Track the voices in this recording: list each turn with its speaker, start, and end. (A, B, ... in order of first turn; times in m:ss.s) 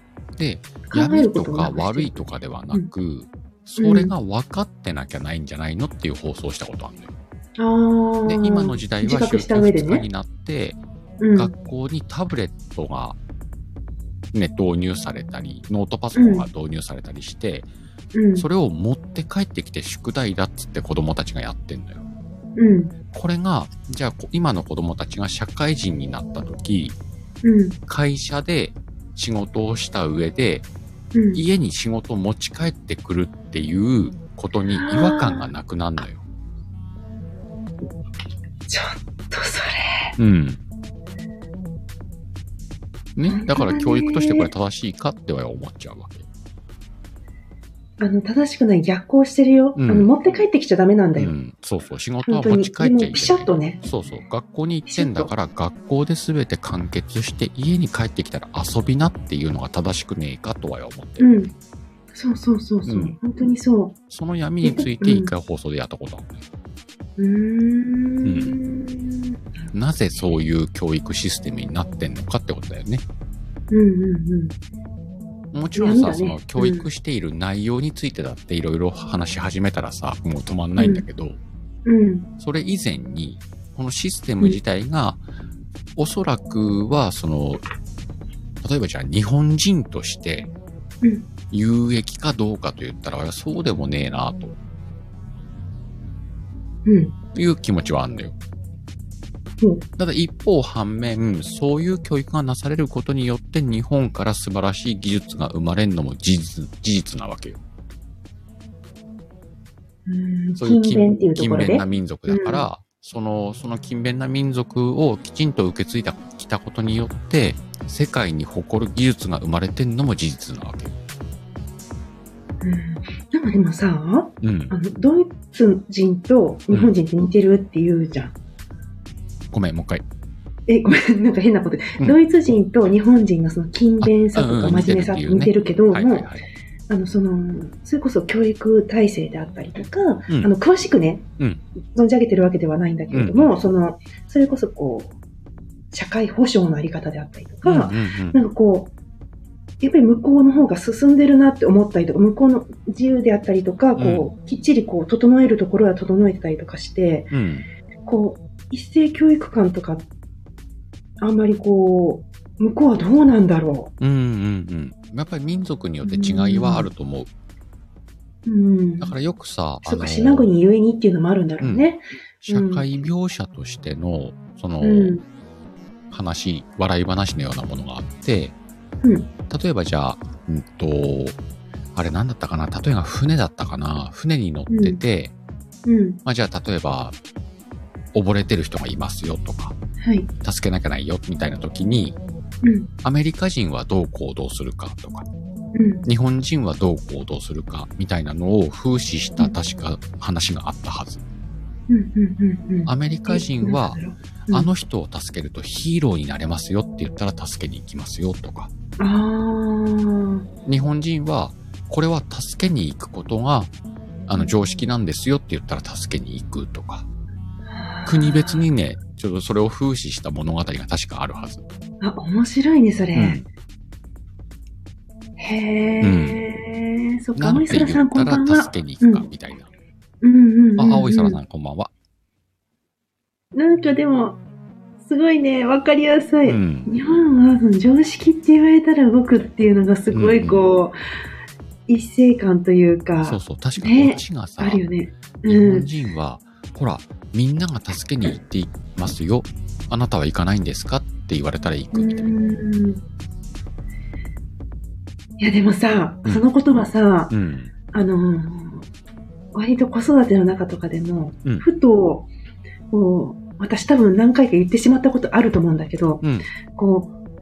0:00.4-0:07.1 A
0:00.9-0:02.9 B
0:03.8-0:04.1 B
0:07.6-0:10.1 B
0:08.3-0:10.8 A
0:11.2-0:11.5 B
0:11.4-0:13.2 A
0:14.3-0:17.7 A
0:16.1-0:16.5 B
0:18.1-0:18.5 B
0:18.4-0:22.1 A
0:22.6-0:22.9 B
0:23.1-0:27.0 A
0:27.4-0:27.8 B
0:27.9-0:30.7 A
0:31.1-0:31.4 B
0:31.3-0:36.2 A
0:34.7-0:35.5 B
0:38.7-0:40.1 B
0:40.2-0:40.6 A
0:43.2-0:46.3 A
0:43.3-0:44.5 B
0:48.0-0:51.3 B
0:49.8-0:50.1 A
0:51.2-1:01.5 A
0:52.2-0:53.8 B
0:54.9-0:55.3 B
1:01.2-1:01.5 B
1:02.1-1:04.0 B
1:02.9-1:03.2 A
1:04.1-1:06.4 A
1:04.6-1:05.3 B
1:07.2-1:09.7 B
1:08.2-1:08.6 A
1:09.7-1:13.0 A
1:13.7-1:14.6 B
1:15.5-1:21.4 A
1:15.8-1:16.9 B
1:20.8-1:21.1 B
1:21.8-1:22.3 B
1:22.4-1:25.2 A
1:26.0-1:27.6 A
1:28.6-1:30.5 A
1:31.0-1:31.3 B
1:31.5-1:34.6 A
1:36.9-1:37.2 B
1:37.3-1:38.4 A
1:39.6-1:39.9 B
1:40.0-1:47.6 A
1:50.1-1:52.7 B
1:50.6-2:01.0 A
2:02.6-2:08.4 B
2:04.4-2:04.7 A
2:09.5-2:10.0 A
2:10.7-2:16.3 B
2:14.0-2:16.5 A
2:16.9-2:21.3 B
2:21.9-2:25.2 B
2:23.1-2:23.5 A
2:25.9-2:28.9 B
2:27.6-2:28.4 A
2:29.8-2:37.3 B
2:34.0-2:34.3 A
2:37.3-2:37.7 A
2:38.0-2:40.1 B
2:41.2-2:43.9 B
2:44.0-2:47.3 A
2:46.0-2:46.9 B
2:48.5-2:49.1 B
2:49.0-2:50.5 A
2:49.8-2:52.9 B
2:51.6-2:51.9 A
2:52.4-2:55.2 A
2:54.8-2:55.2 B
2:56.1-2:58.6 A
2:59.0-2:59.3 B
2:59.5-3:01.4 A
3:02.0-3:05.3 A
3:04.7-3:05.0 B
3:05.9-3:06.2 B
3:06.2-3:07.2 A
3:08.1-3:09.8 A
3:10.0-3:10.3 B
3:10.4-3:12.2 A
3:12.6-3:12.9 B
3:13.0-3:15.3 A
3:15.7-3:16.0 B
3:16.1-3:21.2 A
3:21.9-3:24.7 B
3:22.9-3:28.7 A
3:29.0-3:30.5 B
3:30.7-3:33.7 A
3:34.3-3:37.1 A
3:37.7-3:38.6 B
3:38.1-3:41.6 A
3:42.0-3:43.4 B
3:43.2-3:43.4 A
3:45.4-3:49.3 B
3:46.0-3:46.4 A
3:47.4-3:49.7 A
3:50.2-3:51.4 B
3:50.8-3:51.9 A
3:53.5-3:54.4 B
3:55.0-4:01.0 B
3:56.4-3:56.9 A
4:00.1-4:00.6 A
4:01.9-4:05.9 B
4:03.2-4:04.8 A
4:05.5-4:12.4 A
4:11.9-4:13.0 B
4:15.4-4:17.3 B
4:17.3-4:17.7 A
4:17.9-4:18.9 B
4:19.5-4:22.3 B
4:22.9-4:27.1 B
4:26.2-4:26.5 A